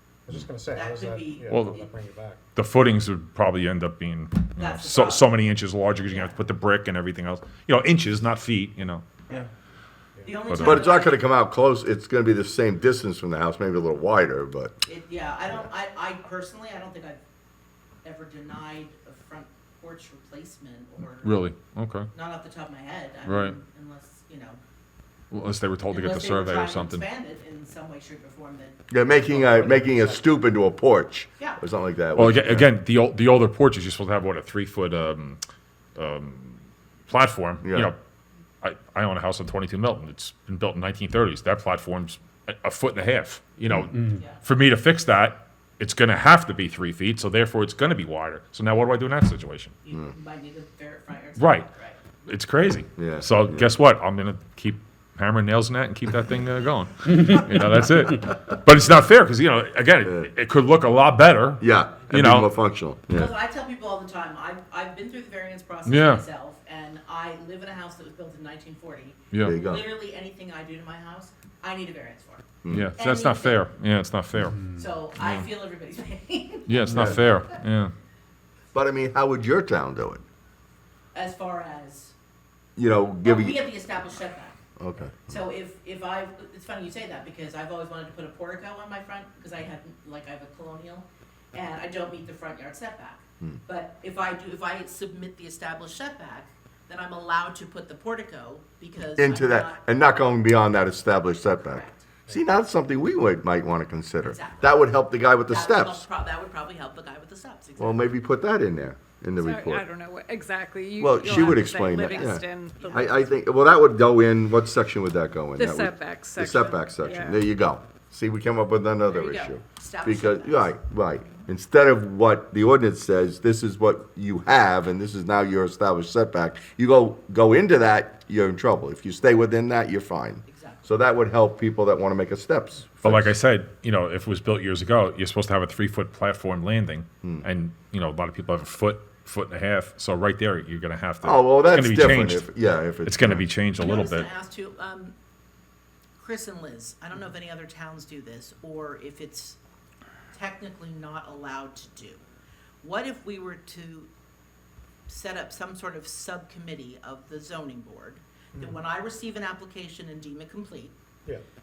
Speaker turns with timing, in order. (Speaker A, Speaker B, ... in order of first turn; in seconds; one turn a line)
Speaker A: 0.2-2.4
Speaker B: 0.7-1.9
Speaker C: 1.5-1.8
Speaker C: 2.5-9.0
Speaker B: 4.6-5.3
Speaker B: 6.0-6.4
Speaker B: 10.2-11.2
Speaker C: 10.5-10.8
Speaker D: 10.6-14.8
Speaker B: 14.8-17.2
Speaker B: 18.0-21.4
Speaker C: 21.2-22.1
Speaker B: 22.1-24.6
Speaker C: 23.2-23.6
Speaker C: 25.3-27.0
Speaker B: 25.9-28.8
Speaker D: 28.9-32.7
Speaker A: 29.2-30.3
Speaker C: 32.1-35.4
Speaker C: 36.0-38.0
Speaker D: 37.6-37.9
Speaker C: 38.6-49.8
Speaker D: 43.7-43.9
Speaker B: 44.1-44.4
Speaker B: 49.8-52.0
Speaker D: 49.9-50.1
Speaker C: 51.4-51.7
Speaker C: 52.2-62.5
Speaker D: 53.0-53.7
Speaker D: 60.0-60.3
Speaker D: 61.6-63.3
Speaker B: 63.1-72.5
Speaker C: 65.8-66.2
Speaker C: 69.3-69.6
Speaker D: 69.4-69.8
Speaker D: 72.6-72.9
Speaker C: 72.7-74.7
Speaker B: 73.0-73.6
Speaker B: 74.7-77.5
Speaker C: 75.2-75.5
Speaker C: 76.7-77.9
Speaker D: 76.9-77.2
Speaker D: 78.7-80.2
Speaker B: 81.1-82.1
Speaker D: 82.8-83.7
Speaker B: 83.2-84.6
Speaker D: 84.8-85.4
Speaker B: 85.3-99.8
Speaker D: 99.2-106.0
Speaker B: 101.6-102.1
Speaker B: 104.2-104.8
Speaker B: 105.5-108.1
Speaker D: 107.8-109.8
Speaker E: 109.4-113.0
Speaker D: 111.0-133.3
Speaker B: 112.0-113.2
Speaker E: 115.5-117.4
Speaker B: 117.0-117.3
Speaker B: 119.1-121.4
Speaker B: 130.4-130.9
Speaker C: 133.0-142.5
Speaker D: 137.2-137.5
Speaker D: 141.2-143.4
Speaker C: 143.0-144.3
Speaker B: 143.8-145.1
Speaker B: 146.2-149.6
Speaker B: 150.3-152.2
Speaker B: 152.8-154.1
Speaker B: 155.1-160.9